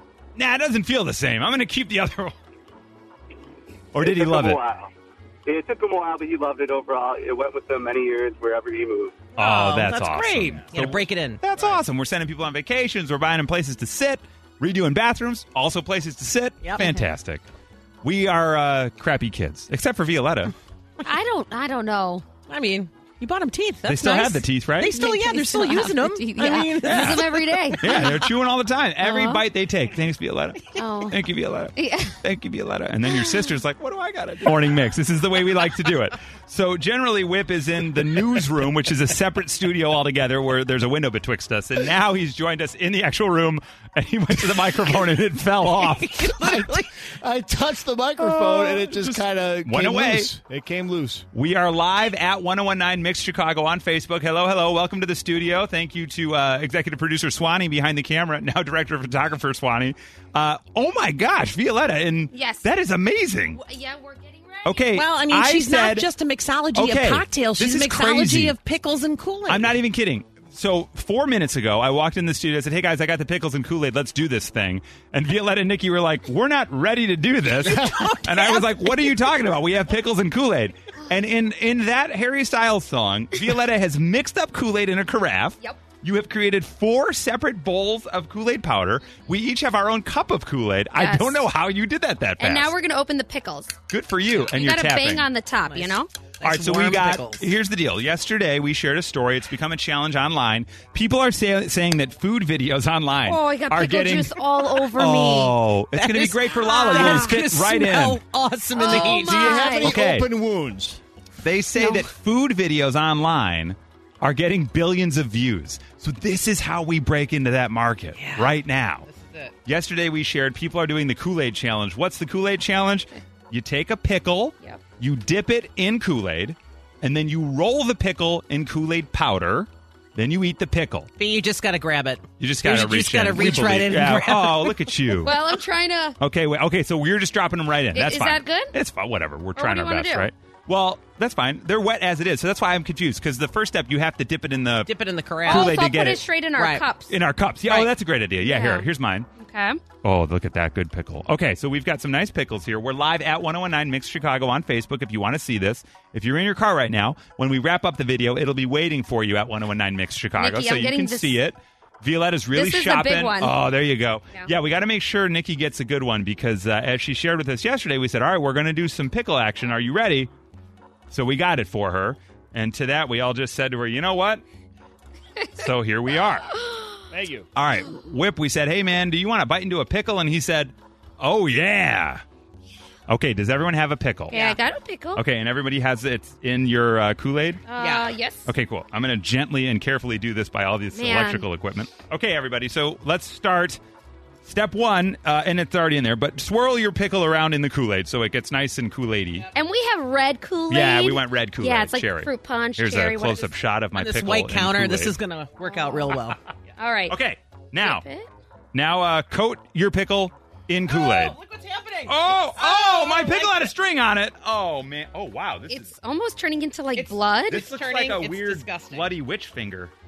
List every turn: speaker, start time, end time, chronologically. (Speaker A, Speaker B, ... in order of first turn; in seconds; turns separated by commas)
Speaker A: 0.3-2.3, Speaker A: 3.9-4.6, Speaker B: 4.0-4.9, Speaker B: 5.5-9.2, Speaker C: 9.3-11.4, Speaker A: 9.3-17.4, Speaker A: 18.0-20.5, Speaker D: 21.0-22.2, Speaker C: 22.5-27.8, Speaker A: 23.9-24.9, Speaker D: 24.9-28.3, Speaker A: 26.8-46.4, Speaker D: 29.0-29.4, Speaker D: 30.7-32.1, Speaker D: 33.1-33.5, Speaker C: 45.7-46.9, Speaker E: 46.4-51.2, Speaker A: 48.6-50.3, Speaker A: 51.3-63.6, Speaker D: 62.3-62.7, Speaker D: 63.5-64.9, Speaker A: 64.6-66.1, Speaker C: 64.9-69.8, Speaker A: 66.7-68.5, Speaker A: 69.5-92.7, Speaker C: 77.5-79.2, Speaker D: 91.0-91.5, Speaker D: 92.4-93.7, Speaker A: 93.9-95.3, Speaker D: 94.4-96.1, Speaker C: 95.6-97.5, Speaker A: 96.4-108.2, Speaker D: 103.2-105.5, Speaker C: 106.0-109.7, Speaker D: 106.6-107.4, Speaker D: 108.7-109.9, Speaker E: 108.8-111.0, Speaker A: 109.8-110.3, Speaker A: 111.4-119.0, Speaker D: 111.8-112.0, Speaker C: 118.2-118.5, Speaker C: 119.1-119.5, Speaker A: 119.7-131.1, Speaker C: 131.2-135.0, Speaker A: 132.4-135.3, Speaker D: 135.2-136.2, Speaker A: 136.2-144.9, Speaker D: 137.9-138.8, Speaker D: 139.6-140.3, Speaker C: 144.9-145.8, Speaker A: 145.4-146.2, Speaker D: 145.5-147.1, Speaker C: 146.6-146.9, Speaker A: 147.1-149.3, Speaker D: 148.4-149.8, Speaker A: 150.0-170.3, Speaker D: 160.4-161.3, Speaker D: 162.5-163.6, Speaker A: 171.1-174.4, Speaker A: 175.6-176.5, Speaker D: 176.6-176.9, Speaker E: 177.1-177.5, Speaker A: 177.5-182.2, Speaker A: 183.1-184.4, Speaker D: 184.3-185.2, Speaker C: 184.3-184.6, Speaker A: 185.1-187.6, Speaker D: 187.7-188.5, Speaker C: 187.8-188.1, Speaker A: 188.4-193.8, Speaker D: 190.9-191.4, Speaker A: 194.4-199.5, Speaker D: 199.5-203.5, Speaker A: 200.7-205.1, Speaker C: 203.9-206.4, Speaker D: 205.7-206.2, Speaker D: 206.8-207.2, Speaker A: 207.1-208.0, Speaker D: 207.8-208.3, Speaker A: 208.7-211.3, Speaker C: 210.9-213.7, Speaker A: 212.1-215.9, Speaker D: 215.7-217.6, Speaker C: 216.9-219.1, Speaker A: 217.5-219.9